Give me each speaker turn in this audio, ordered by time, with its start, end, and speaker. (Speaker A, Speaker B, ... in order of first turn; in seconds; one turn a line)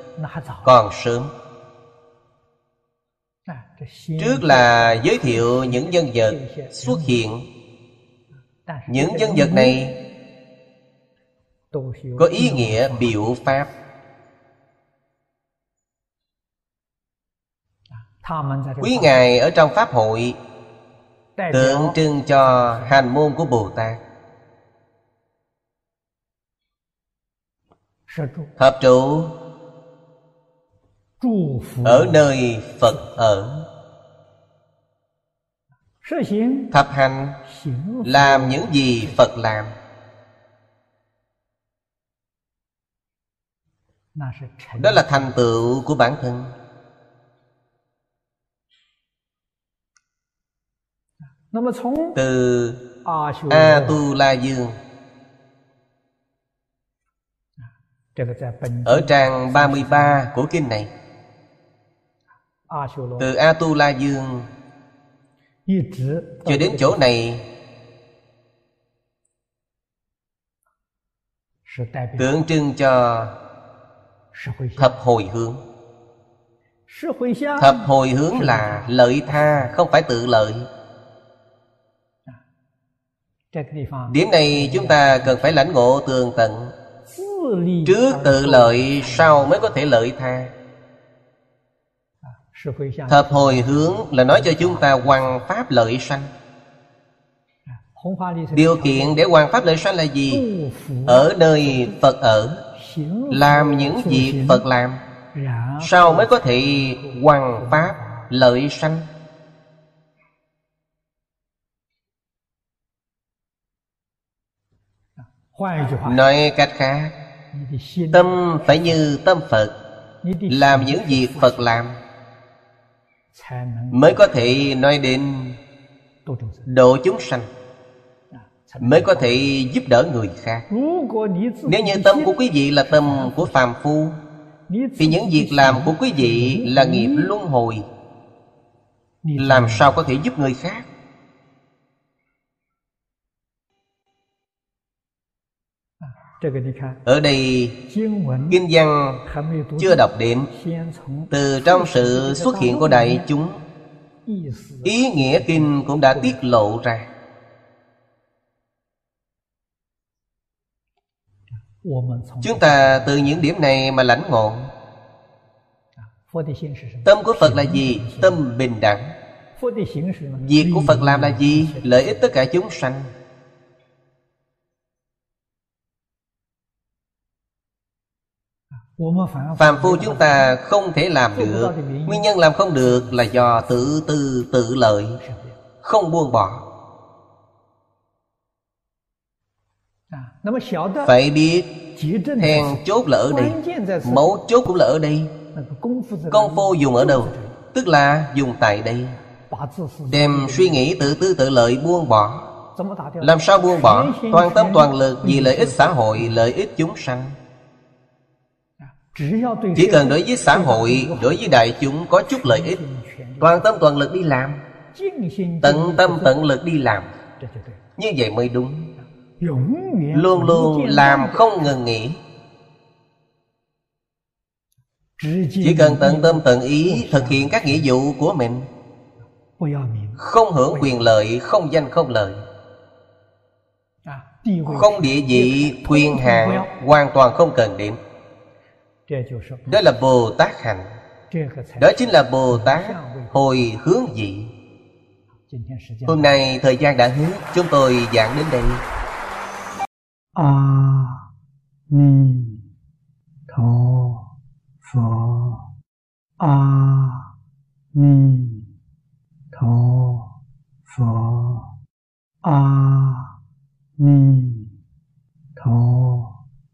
Speaker A: 0.2-0.8
Speaker B: 0.7-1.3
Speaker A: 3.5-7.2
Speaker B: 4.2-7.5
Speaker A: 8.6-9.8
Speaker B: 8.9-10.0
Speaker A: 11.7-13.7
Speaker B: 12.2-13.7
Speaker A: 18.0-19.3
Speaker B: 18.8-20.4
Speaker A: 21.4-23.0
Speaker B: 21.5-24.0
Speaker A: 28.1-28.5
Speaker B: 28.6-29.3
Speaker A: 31.2-32.3
Speaker B: 31.9-33.6
Speaker A: 32.9-33.2
Speaker A: 36.0-36.8
Speaker B: 36.7-37.4
Speaker A: 37.4-39.2
Speaker B: 38.0-39.8
Speaker A: 44.1-45.4
Speaker B: 44.8-46.5
Speaker A: 51.5-52.2
Speaker B: 52.2-52.8
Speaker A: 53.0-54.0
Speaker B: 53.5-54.8
Speaker A: 58.1-60.3
Speaker B: 58.9-60.9
Speaker A: 62.7-63.3
Speaker B: 63.2-64.5
Speaker A: 65.7-67.1
Speaker B: 66.5-67.5
Speaker A: 71.7-72.4
Speaker B: 72.2-73.3
Speaker A: 74.3-75.0
Speaker B: 74.8-75.6
Speaker A: 76.9-79.8
Speaker B: 77.6-80.7
Speaker A: 83.5-85.7
Speaker B: 84.1-86.7
Speaker A: 87.0-89.8
Speaker B: 87.9-90.5
Speaker A: 92.2-95.4
Speaker B: 93.1-96.3
Speaker A: 97.7-99.3
Speaker B: 98.5-100.4
Speaker A: 100.3-102.0
Speaker B: 101.1-102.6
Speaker A: 102.7-104.7
Speaker B: 103.3-105.0
Speaker A: 105.3-108.3
Speaker B: 105.8-109.1
Speaker A: 115.4-116.2
Speaker B: 116.0-117.1
Speaker A: 117.5-119.0
Speaker B: 118.1-119.8
Speaker A: 120.2-121.7
Speaker B: 120.5-122.0
Speaker A: 123.3-124.7
Speaker B: 123.9-125.6
Speaker A: 126.2-126.7
Speaker B: 126.7-127.5
Speaker A: 128.3-129.6
Speaker B: 128.8-130.7
Speaker A: 130.7-133.5
Speaker B: 131.7-134.2
Speaker A: 134.7-137.3
Speaker B: 135.0-137.9
Speaker A: 139.2-140.0
Speaker B: 139.4-140.9
Speaker A: 146.0-147.0
Speaker B: 147.1-147.8
Speaker A: 147.9-148.6
Speaker B: 148.5-149.2
Speaker A: 149.2-153.3
Speaker B: 149.8-150.5
Speaker B: 151.3-153.6
Speaker A: 154.3-156.4
Speaker B: 154.8-157.1
Speaker A: 161.8-163.5
Speaker B: 162.4-164.7
Speaker A: 166.0-168.4
Speaker B: 167.1-169.2
Speaker A: 169.6-172.3
Speaker B: 170.4-173.1
Speaker A: 179.0-180.5
Speaker B: 179.6-185.2
Speaker A: 181.3-184.0
Speaker A: 185.2-185.6
Speaker B: 185.8-186.6
Speaker A: 190.1-191.2
Speaker B: 191.0-191.7
Speaker A: 191.9-194.4
Speaker B: 192.4-195.3
Speaker A: 195.5-197.6
Speaker B: 196.3-199.2
Speaker A: 199.5-201.2
Speaker B: 200.1-202.5
Speaker A: 202.7-206.5
Speaker B: 203.2-207.4
Speaker A: 208.8-213.6
Speaker B: 209.8-212.8
Speaker B: 213.4-214.6
Speaker A: 214.9-216.5
Speaker B: 215.6-217.1
Speaker A: 217.2-217.8
Speaker B: 218.0-218.9
Speaker A: 219.4-221.8
Speaker B: 220.1-222.2
Speaker A: 225.2-227.9
Speaker B: 225.6-228.7
Speaker A: 229.6-231.0
Speaker B: 230.2-232.5
Speaker A: 234.1-236.7
Speaker B: 234.7-238.0
Speaker A: 239.1-239.8
Speaker B: 239.7-241.0
Speaker A: 241.3-243.6
Speaker B: 241.8-244.5
Speaker A: 245.5-246.4
Speaker B: 246.1-248.8
Speaker A: 250.4-251.3
Speaker A: 251.9-252.6
Speaker A: 253.5-254.3
Speaker A: 254.8-255.6
Speaker A: 256.4-257.3
Speaker A: 257.9-258.7
Speaker A: 259.5-260.3
Speaker A: 260.9-261.7
Speaker A: 262.4-263.3
Speaker A: 264.0-264.7
Speaker A: 265.6-266.4